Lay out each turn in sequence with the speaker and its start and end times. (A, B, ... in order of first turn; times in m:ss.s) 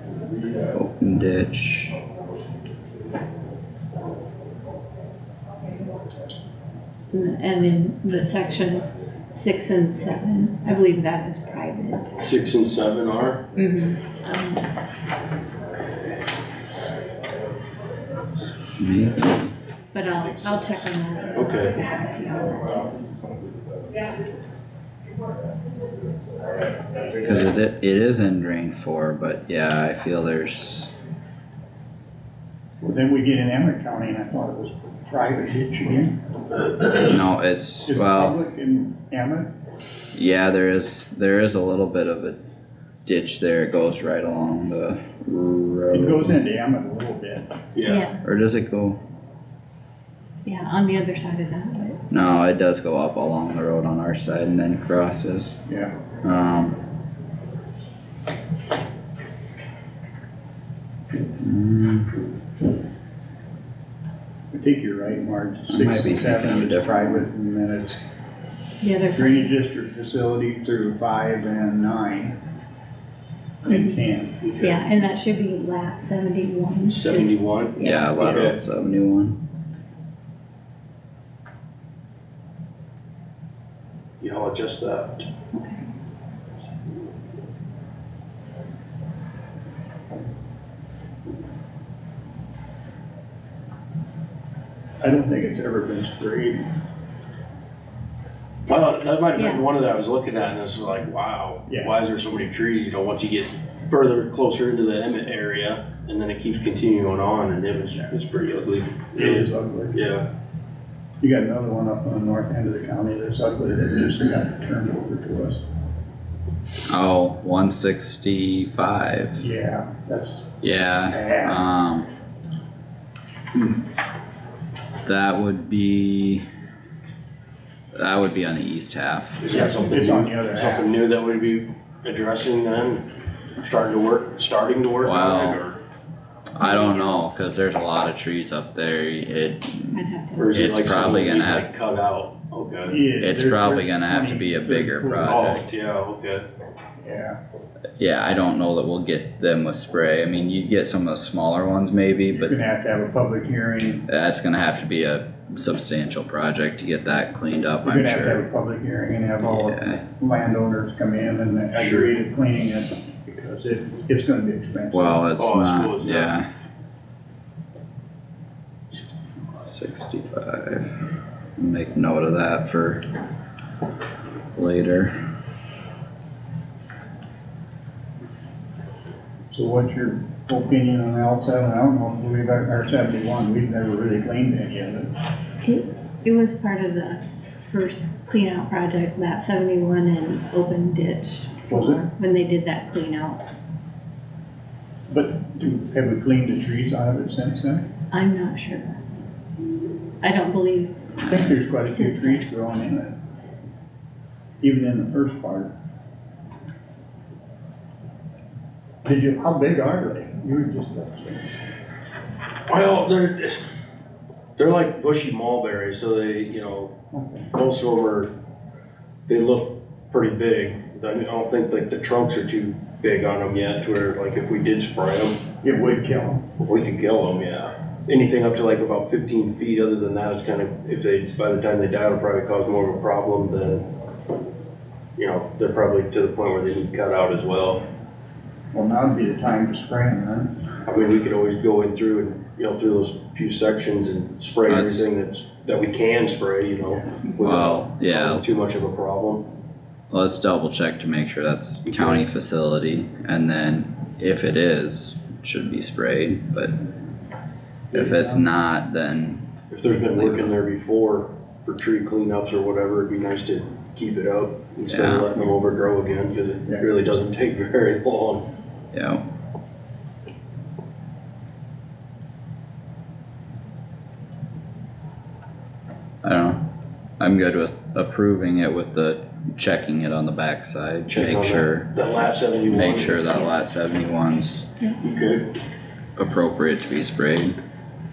0:00.7-0:02.0 A
0:07.1-0:12.2 B
0:12.2-0:13.5 C
0:13.5-0:14.7 B
0:18.8-0:19.3 A
0:19.9-0:23.0 B
0:21.4-0:21.8 C
0:27.2-0:30.9 A
0:32.8-0:36.2 D
0:37.0-0:38.4 A
0:37.8-0:39.5 D
0:40.1-0:42.4 A
0:43.0-0:46.4 A
0:45.9-0:47.5 D
0:47.8-0:48.0 C
0:47.9-0:48.2 B
0:48.2-0:49.0 A
0:50.4-0:52.0 B
0:52.1-0:55.6 A
0:55.7-0:55.9 D
0:56.2-0:56.8 A
1:01.4-1:02.1 A
1:04.5-1:08.0 D
1:05.7-1:07.3 A
1:08.8-1:09.6 B
1:09.1-1:12.4 D
1:13.6-1:14.4 D
1:13.7-1:14.0 B
1:14.4-1:14.8 C
1:14.6-1:18.2 B
1:16.9-1:18.6 C
1:17.8-1:19.4 A
1:24.2-1:25.3 C
1:25.5-1:25.9 B
1:35.0-1:36.6 D
1:38.7-1:50.3 C
1:39.4-1:39.6 B
1:41.7-1:42.0 D
1:49.2-1:50.0 D
1:51.2-1:55.6 D
1:56.9-1:59.4 A
1:59.4-2:00.5 D
2:00.6-2:02.1 A
2:01.1-2:01.6 D
2:05.0-2:06.5 A
2:07.9-2:09.4 A
2:09.4-2:13.0 C
2:09.5-2:10.9 D
2:13.6-2:15.8 C
2:15.0-2:15.6 A
2:16.5-2:20.0 A
2:16.6-2:17.3 B
2:19.9-2:20.7 B
2:20.4-2:23.1 C
2:20.5-2:21.7 A
2:22.9-2:25.6 D
2:23.2-2:25.6 A
2:25.2-2:26.5 C
2:27.0-2:27.4 D
2:28.0-2:32.6 A
2:32.3-2:34.0 D
2:34.1-2:38.4 A
2:37.8-2:45.2 D
2:39.5-2:40.0 A
2:41.8-2:42.2 C
2:44.9-2:46.5 A
2:45.4-2:46.3 C
2:49.7-2:51.0 A
2:51.6-2:53.0 A
2:54.6-2:55.1 A
2:59.5-3:05.1 D
3:05.6-3:13.4 B
3:11.7-3:12.0 D
3:15.1-3:17.9 D
3:18.1-3:19.0 B
3:20.2-3:21.0 B
3:21.2-3:21.5 A
3:21.3-3:23.2 D
3:21.8-3:22.5 B
3:24.6-3:25.7 D
3:29.0-3:31.4 D
3:32.7-3:33.6 C
3:34.6-3:36.9 C
3:37.1-3:37.5 D
3:37.5-3:38.3 C
3:39.3-3:45.4 C
3:45.6-3:46.4 D
3:46.6-3:53.9 C
3:55.2-3:57.8 C
3:58.7-4:00.5 D
4:00.9-4:09.4 C
4:04.7-4:05.0 A
4:07.4-4:08.4 A
4:10.1-4:16.7 A
4:11.8-4:12.2 C
4:17.9-4:18.5 D
4:17.9-4:19.5 A
4:19.7-4:28.4 C
4:20.1-4:20.5 A
4:24.9-4:25.4 A
4:28.9-4:29.2 A
4:36.2-4:36.6 A
4:37.2-4:41.9 A
4:41.1-4:43.3 C
4:42.7-4:44.7 A
4:45.0-4:45.5 C
4:46.2-4:47.6 A